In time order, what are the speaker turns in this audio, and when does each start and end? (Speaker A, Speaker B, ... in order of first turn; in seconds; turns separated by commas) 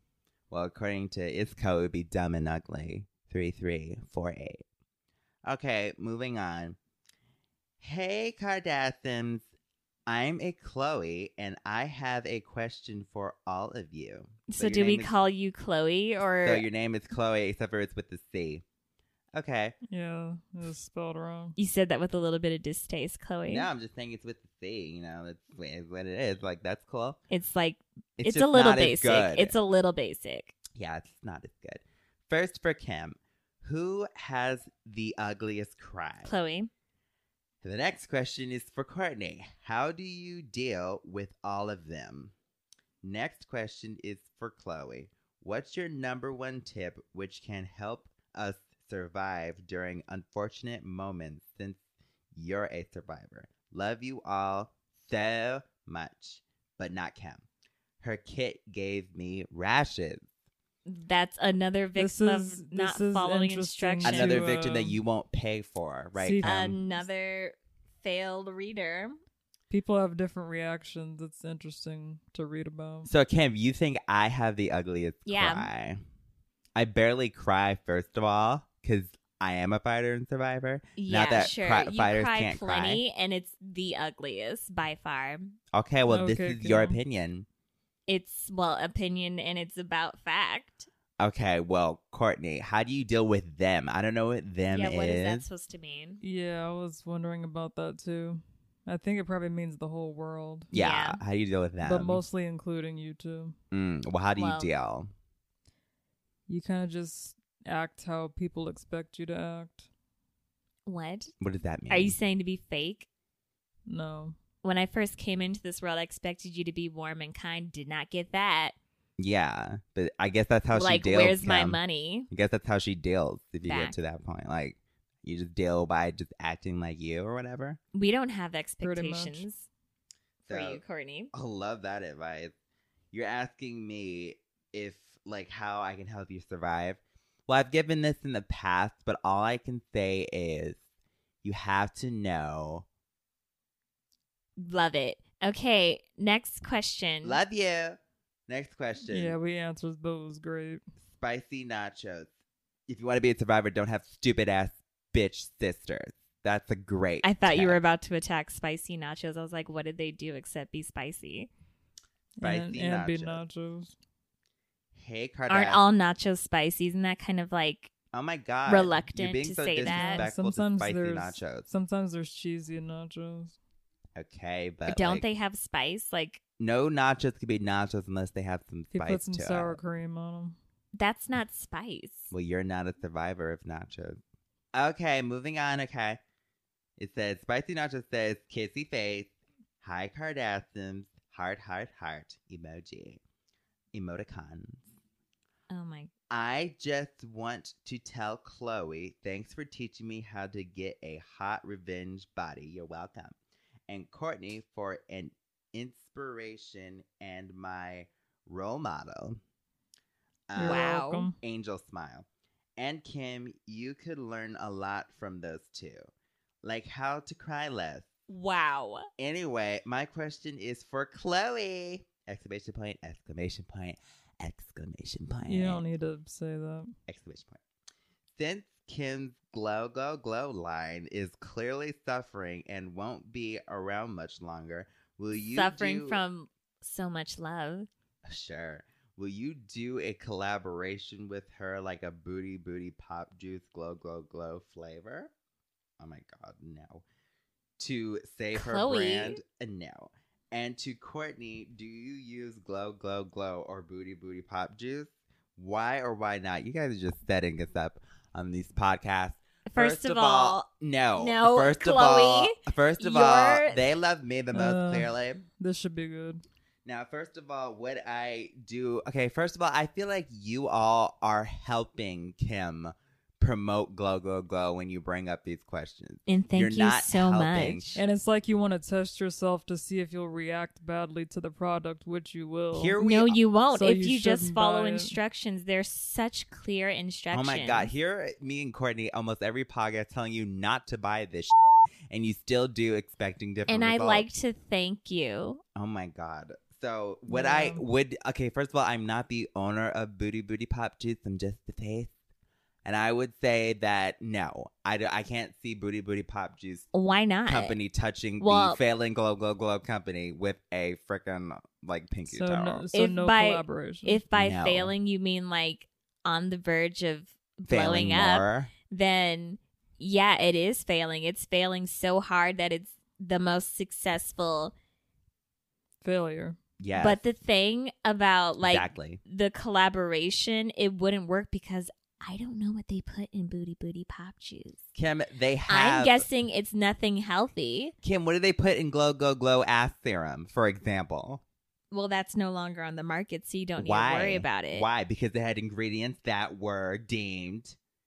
Speaker A: 0.5-4.6, Speaker A: 5.5-6.8, Speaker A: 7.8-9.5, Speaker A: 10.1-15.1, Speaker B: 14.5-16.6, Speaker A: 16.4-18.6, Speaker A: 19.4-19.8, Speaker C: 19.9-21.6, Speaker B: 21.6-23.7, Speaker A: 23.5-27.2, Speaker B: 27.3-30.5, Speaker A: 28.2-29.6, Speaker A: 30.7-36.3, Speaker B: 36.2-36.7, Speaker A: 37.6-42.3, Speaker A: 43.0-51.8, Speaker A: 52.3-57.4, Speaker A: 58.0-60.3, Speaker B: 60.9-64.4, Speaker C: 62.0-65.0, Speaker A: 64.0-66.8, Speaker C: 66.2-67.0, Speaker B: 66.4-69.2, Speaker C: 69.7-73.1, Speaker A: 73.1-76.0, Speaker B: 75.3-75.7, Speaker A: 76.8-83.0, Speaker B: 81.0-85.6, Speaker A: 85.7-87.5, Speaker C: 86.1-87.0, Speaker B: 88.1-90.9, Speaker A: 91.2-95.5, Speaker B: 94.7-96.2, Speaker C: 96.2-100.7, Speaker B: 100.7-101.2, Speaker A: 100.7-102.2, Speaker C: 101.8-103.6, Speaker A: 103.7-105.1, Speaker B: 104.4-104.7, Speaker C: 106.5-109.9, Speaker B: 110.9-111.3, Speaker A: 111.4-112.2, Speaker B: 111.9-113.1, Speaker C: 113.9-114.4, Speaker B: 114.6-118.8, Speaker A: 119.2-121.8, Speaker B: 120.7-122.3, Speaker A: 122.3-127.8, Speaker B: 123.6-124.0, Speaker B: 127.9-129.7, Speaker C: 128.8-129.5, Speaker B: 130.4-131.3, Speaker A: 130.5-130.8, Speaker A: 131.3-132.5, Speaker A: 133.1-140.8, Speaker A: 141.4-142.9, Speaker B: 144.6-147.4, Speaker A: 147.2-149.4, Speaker C: 149.1-150.8, Speaker A: 151.1-152.3, Speaker A: 152.9-157.8, Speaker B: 157.2-161.5, Speaker C: 162.4-163.9, Speaker A: 162.4-163.4, Speaker A: 164.9-165.8, Speaker B: 165.5-167.9, Speaker A: 168.1-171.7, Speaker B: 168.7-170.3, Speaker C: 169.8-173.6, Speaker A: 174.2-175.3, Speaker B: 174.9-176.4, Speaker A: 176.6-179.8, Speaker C: 178.9-180.6, Speaker B: 180.9-182.3, Speaker A: 182.3-184.2, Speaker A: 184.8-186.2, Speaker A: 187.0-189.3, Speaker A: 189.8-193.2, Speaker A: 193.9-194.9, Speaker B: 195.7-196.1, Speaker A: 196.3-203.3, Speaker A: 203.9-209.4, Speaker A: 210.5-212.3, Speaker C: 210.6-211.4, Speaker B: 210.6-211.3, Speaker A: 212.8-216.1, Speaker A: 216.6-218.1, Speaker B: 218.3-219.1, Speaker A: 219.2-225.8, Speaker C: 225.5-226.9, Speaker A: 227.1-227.6, Speaker A: 228.4-236.2, Speaker B: 235.4-237.9, Speaker A: 238.3-245.3, Speaker A: 246.0-247.0, Speaker A: 247.8-265.4, Speaker B: 248.5-249.4, Speaker B: 259.7-263.9, Speaker C: 264.5-266.4, Speaker A: 266.9-277.9, Speaker B: 276.3-278.0, Speaker C: 277.9-283.0, Speaker A: 282.7-283.4, Speaker B: 283.0-287.9, Speaker C: 283.7-285.2, Speaker A: 287.3-291.5, Speaker A: 292.1-294.3, Speaker B: 293.7-295.6, Speaker A: 295.8-302.1, Speaker C: 297.3-297.8, Speaker A: 302.9-306.9, Speaker B: 306.9-307.8, Speaker A: 307.5-312.9, Speaker B: 308.4-308.8, Speaker C: 312.3-314.2, Speaker B: 312.9-324.7, Speaker A: 314.3-314.9, Speaker A: 317.7-318.7, Speaker C: 326.0-326.6, Speaker A: 326.8-327.2, Speaker B: 327.0-334.8, Speaker A: 328.6-329.2, Speaker A: 334.9-336.3, Speaker B: 335.7-337.9, Speaker A: 338.0-341.4, Speaker B: 341.9-344.9, Speaker A: 343.8-347.8